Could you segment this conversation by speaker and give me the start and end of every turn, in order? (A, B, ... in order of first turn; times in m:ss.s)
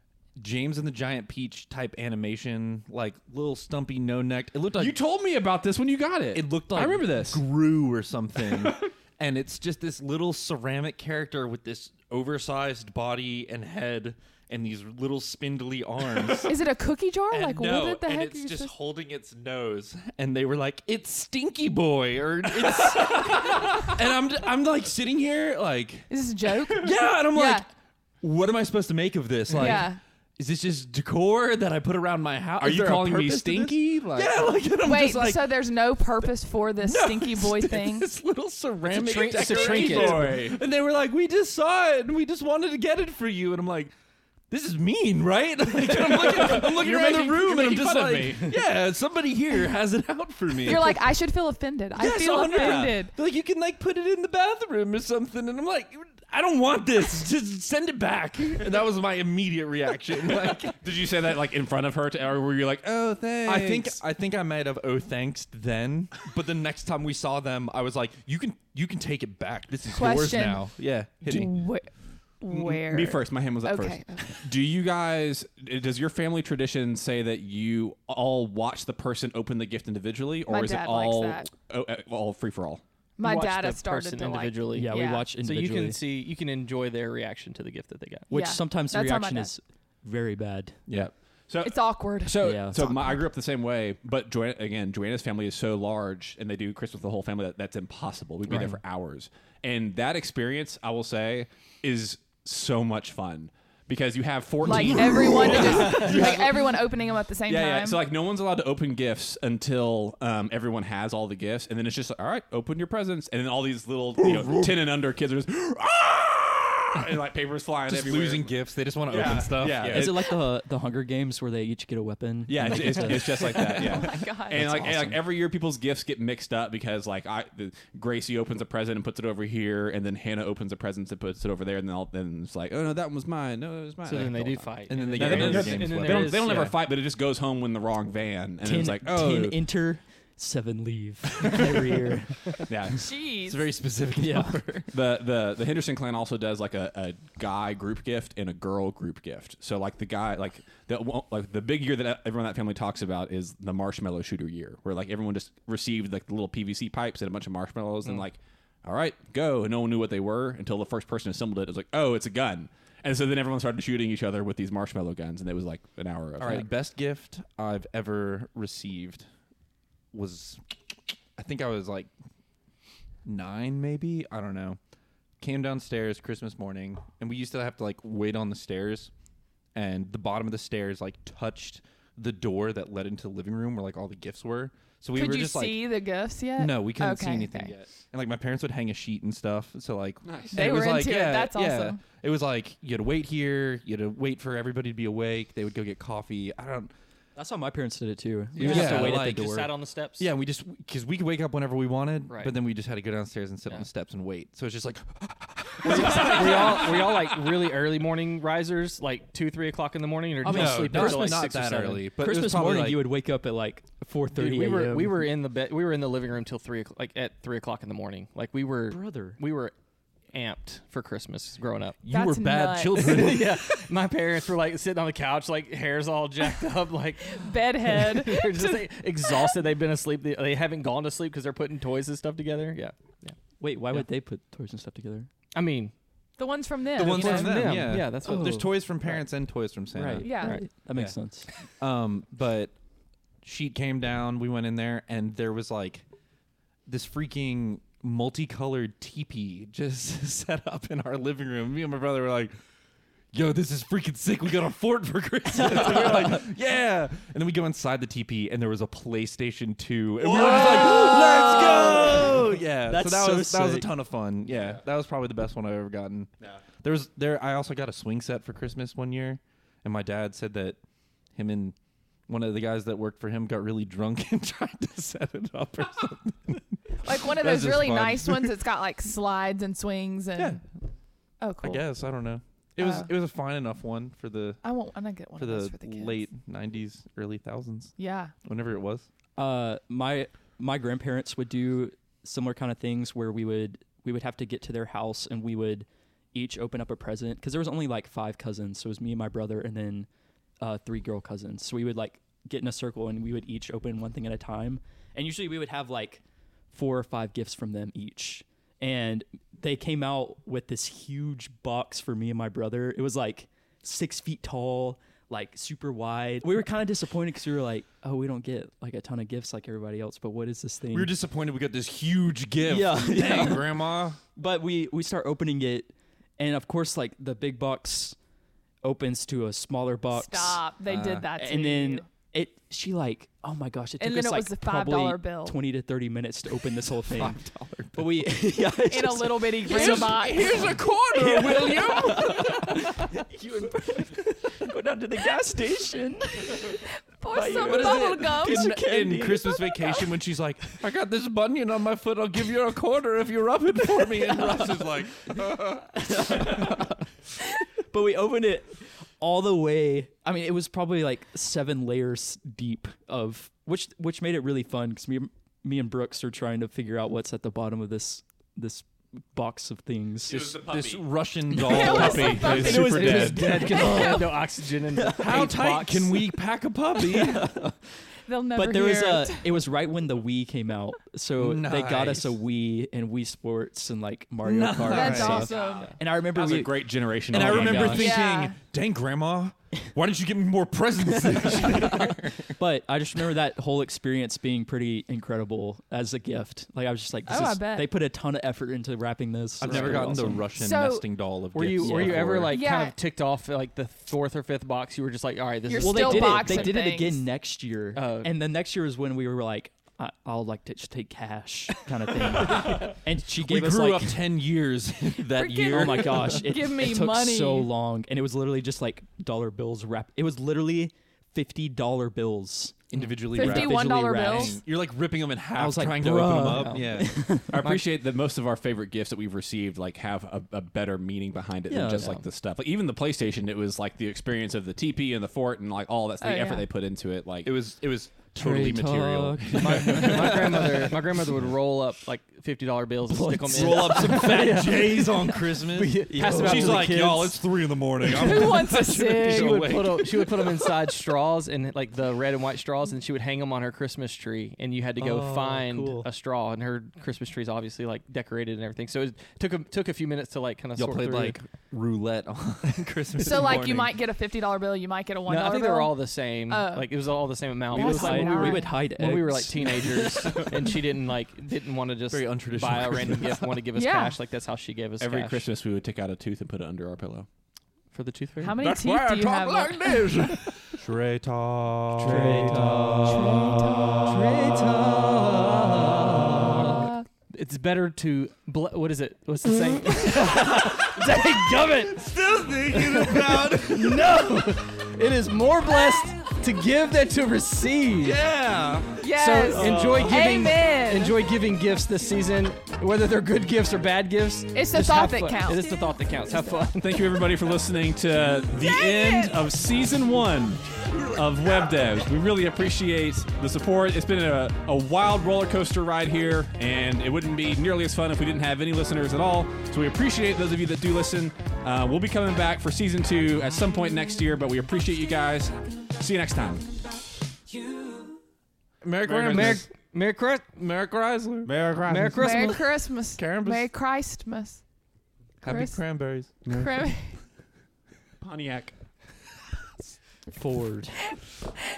0:00.4-0:05.0 A
0:04.8-0:07.4 B
0:06.3-0:16.6 A
0:16.5-0:18.7 C
0:17.3-0:26.1 A
0:23.0-0:23.9 B
0:26.1-0:27.7 C
0:26.7-0:27.7 A
0:28.2-0:35.6 A
0:29.5-0:30.0 C
0:32.6-0:34.5 B
0:34.8-0:38.1 C
0:36.8-0:43.9 A
0:38.9-0:40.3 D
0:39.2-0:40.6 B
0:44.5-0:51.0 A
0:45.8-0:48.6 B
0:50.6-0:53.1 C
0:52.0-1:00.8 A
1:00.7-1:04.0 B
1:03.4-1:11.5 A
1:09.9-1:10.6 C
1:11.2-1:14.5 C
1:12.5-1:22.8 B
1:20.5-1:21.5 C
1:23.2-1:25.3 C
1:23.2-1:28.3 D
1:24.7-1:26.0 E
1:28.3-1:30.8 E
1:28.3-1:29.5 C
1:30.9-1:46.8 B
1:31.6-1:32.8 C
1:32.4-1:32.8 E
1:44.6-1:48.0 C
1:45.2-1:46.3 A
1:47.5-2:00.2 B
1:54.2-1:54.8 A
1:57.9-2:00.3 A
1:59.8-2:05.2 E
2:02.5-2:19.6 B
2:03.6-2:04.7 C
2:14.0-2:16.8 D
2:14.9-2:16.8 A
2:18.6-2:22.7 E
2:22.7-2:23.1 B
2:23.0-2:23.7 C
2:23.4-2:24.9 A
2:24.2-2:24.8 E
2:24.9-2:46.7 B
2:46.4-2:49.2 A
2:50.1-2:52.1 A
2:53.2-2:54.8 A
2:55.4-2:59.1 A
2:59.8-3:05.9 A
3:05.1-3:07.7 C
3:06.6-3:16.9 A
3:10.2-3:10.8 B
3:10.5-3:12.0 C
3:17.4-3:19.6 E
3:18.6-3:20.3 D
3:18.6-3:27.3 A
3:22.3-3:22.5 D
3:25.8-3:32.0 D
3:30.4-3:35.3 E
3:30.5-3:33.1 A
3:34.4-3:39.7 D
3:38.9-3:39.4 E
3:40.3-3:42.0 D
3:42.0-3:43.6 A
3:42.1-3:43.2 C
3:42.9-3:53.4 D
3:47.3-3:49.5 C
3:53.6-3:55.3 E
3:55.6-3:55.9 D
3:56.4-3:57.7 C
3:56.9-4:00.4 A
3:57.0-3:58.7 D
3:57.7-3:59.2 E
3:59.9-4:01.5 E
4:00.2-4:00.6 C
4:00.4-4:00.7 D
4:01.7-4:02.7 A
4:03.4-4:06.1 A
4:06.9-4:12.5 A
4:13.3-4:30.8 A
4:15.6-4:16.4 E
4:20.2-4:21.2 B
4:20.3-4:23.9 E
4:31.3-4:31.8 A
4:32.3-4:38.6 A
4:37.0-4:40.6 C
4:40.4-4:40.6 A
4:41.4-4:41.8 C
4:41.6-4:44.6 A
4:42.8-4:43.1 C
4:44.6-4:46.2 C
4:45.4-4:49.1 A
4:48.0-4:48.3 C
4:49.4-5:00.1 E
5:00.6-5:21.1 E
5:20.9-5:24.2 A
5:22.6-5:28.2 E
5:28.8-5:30.7 E
5:30.1-5:32.1 C
5:30.9-5:31.3 A
5:31.3-5:37.4 E
5:34.0-5:35.6 C
5:37.2-5:38.2 A
5:38.0-5:50.0 E
5:38.9-5:40.8 C
5:39.7-5:42.7 A
5:39.7-5:42.1 B
5:47.1-5:48.8 C
5:47.6-5:56.9 A
5:54.0-5:54.8 E
5:55.8-6:10.5 E
6:10.3-6:13.5 B
6:10.3-6:14.0 A
6:11.6-6:14.2 E
6:11.6-6:14.4 C
6:13.4-6:16.3 D
6:15.0-6:15.4 E
6:15.2-6:17.6 A
6:17.0-6:17.8 E
6:18.3-6:19.6 C
6:18.6-6:28.3 E
6:21.4-6:22.4 A
6:24.4-6:25.5 A
6:24.8-6:26.0 C
6:25.5-6:28.1 B
6:27.3-6:32.6 A
6:27.9-6:28.6 C
6:31.5-6:40.5 E
6:37.3-6:37.9 C
6:39.6-6:40.3 D
6:39.6-6:42.6 A
6:40.5-6:41.1 C
6:41.5-6:46.8 D
6:41.8-6:42.4 E
6:42.5-6:43.0 C
6:45.7-6:47.2 C
6:45.8-6:54.3 E
6:48.0-6:48.3 D
6:52.6-6:56.5 A
6:55.4-6:57.7 C
6:55.4-7:04.6 E
7:02.9-7:07.2 A
7:03.4-7:04.6 C
7:05.6-7:07.7 E
7:06.6-7:07.0 D
7:07.5-7:17.5 B
7:11.7-7:12.2 E
7:16.2-7:16.7 C
7:17.4-7:20.9 A
7:18.4-7:20.7 E
7:19.8-7:27.2 D
7:23.1-7:24.6 E
7:23.5-7:30.7 A
7:26.0-7:27.4 E
7:28.0-7:29.8 C
7:29.1-7:41.4 D
7:35.0-7:36.1 E
7:40.8-7:43.9 A
7:43.2-7:45.9 C
7:45.3-7:55.4 D
7:46.5-7:46.9 C
7:47.7-7:48.8 C
7:47.7-7:50.4 E
7:49.6-7:50.5 A
7:52.1-7:53.5 A
7:53.8-7:54.2 C
7:55.0-7:57.3 B
7:57.9-7:58.6 D
7:58.4-8:00.5 C
7:58.6-8:00.4 B
7:58.7-7:59.1 A
7:59.9-8:04.3 A
8:02.0-8:04.1 E
8:02.1-8:02.8 D
8:03.1-8:04.1 C
8:03.9-8:12.0 D
8:06.6-8:07.0 C
8:10.2-8:14.2 A
8:12.7-8:18.2 D
8:18.0-8:19.1 A
8:19.0-8:21.2 C
8:19.1-8:27.3 D
8:19.5-8:20.5 E
8:24.5-8:25.8 C
8:26.4-8:26.7 C
8:26.8-8:46.7 B
8:28.6-8:29.4 C
8:47.8-8:48.2 D
8:48.8-8:49.7 A
8:49.1-8:49.6 B
8:49.2-8:50.6 D
8:50.6-8:51.5 A
8:51.4-8:52.5 B
8:51.9-8:52.7 D
8:52.2-8:54.6 C
8:53.2-8:53.7 A
8:55.4-8:56.4 A
8:55.4-8:55.8 C
8:56.4-8:56.7 B
8:56.5-8:57.2 C
8:58.2-8:58.7 B
9:00.3-9:01.0 E